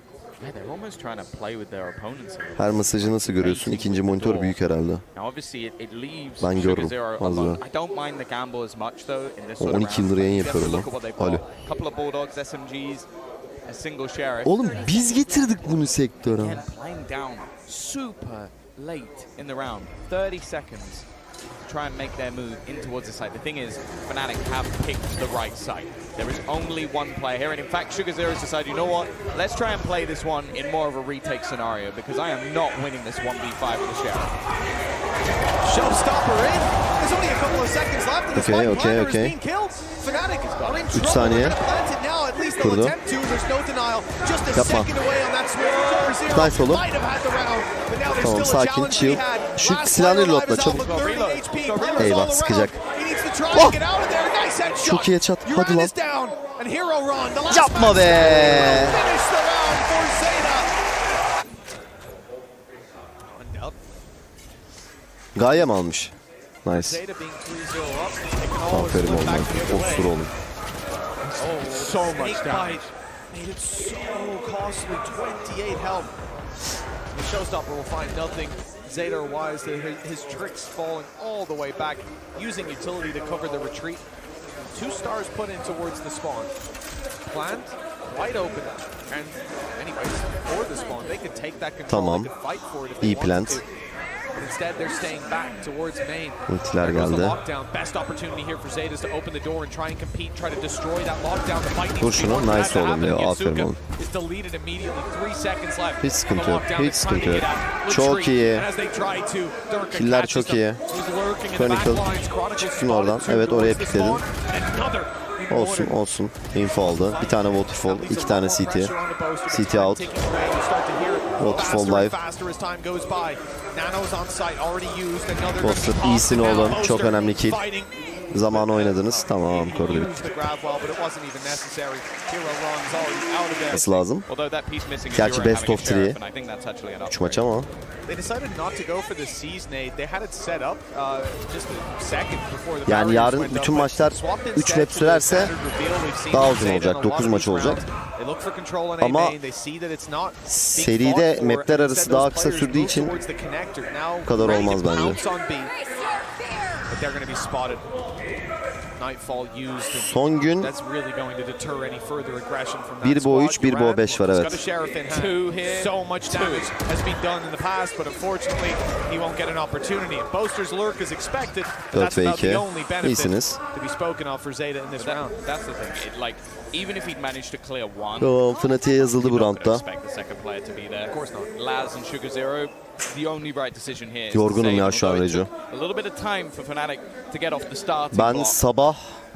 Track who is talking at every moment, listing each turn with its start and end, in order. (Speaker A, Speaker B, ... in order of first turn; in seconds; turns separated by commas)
Speaker A: 0.4-4.5, Speaker B: 2.6-5.0, Speaker A: 5.1-13.1, Speaker B: 6.4-7.6, Speaker B: 9.6-11.4, Speaker A: 13.6-14.6, Speaker B: 14.4-16.6, Speaker A: 16.2-21.1, Speaker A: 21.6-34.3, Speaker C: 35.6-60.7, Speaker B: 38.3-39.4, Speaker A: 40.5-40.9, Speaker B: 40.9-41.6, Speaker B: 42.6-43.0, Speaker B: 44.5-44.9, Speaker A: 45.6-46.1, Speaker B: 46.3-46.9, Speaker B: 48.1-50.9, Speaker A: 50.6-52.2, Speaker B: 51.9-52.8, Speaker B: 53.5-53.8, Speaker B: 54.8-55.9, Speaker B: 57.5-59.0, Speaker C: 63.2-63.8, Speaker B: 65.3-66.1, Speaker B: 66.6-67.0, Speaker C: 66.7-70.1, Speaker B: 68.7-70.3, Speaker A: 71.2-72.9, Speaker C: 71.4-76.1, Speaker C: 77.1-84.0, Speaker C: 84.7-86.5, Speaker C: 87.2-93.7, Speaker B: 91.9-92.3, Speaker B: 93.0-93.6, Speaker C: 94.3-116.0, Speaker B: 96.5-97.4, Speaker B: 102.0-103.8, Speaker B: 106.0-108.7, Speaker B: 109.9-110.8, Speaker B: 111.5-114.2, Speaker B: 115.5-118.9, Speaker C: 116.8-134.0, Speaker B: 119.5-120.1, Speaker B: 121.4-122.2, Speaker B: 125.6-127.6, Speaker B: 128.3-130.3, Speaker B: 133.7-134.2, Speaker A: 134.2-137.5, Speaker B: 135.1-136.2, Speaker B: 137.1-137.7, Speaker C: 138.1-155.8, Speaker B: 142.9-145.5, Speaker B: 146.3-147.8, Speaker B: 149.0-149.4, Speaker B: 150.5-153.1, Speaker B: 154.2-155.2, Speaker C: 156.8-157.9, Speaker C: 159.0-175.4, Speaker B: 160.0-160.7, Speaker B: 163.0-164.6, Speaker A: 165.1-166.7, Speaker B: 171.9-173.6, Speaker A: 175.0-178.4, Speaker B: 178.2-179.8, Speaker A: 179.0-188.6, Speaker C: 181.1-181.5, Speaker B: 184.3-185.5, Speaker B: 188.1-189.2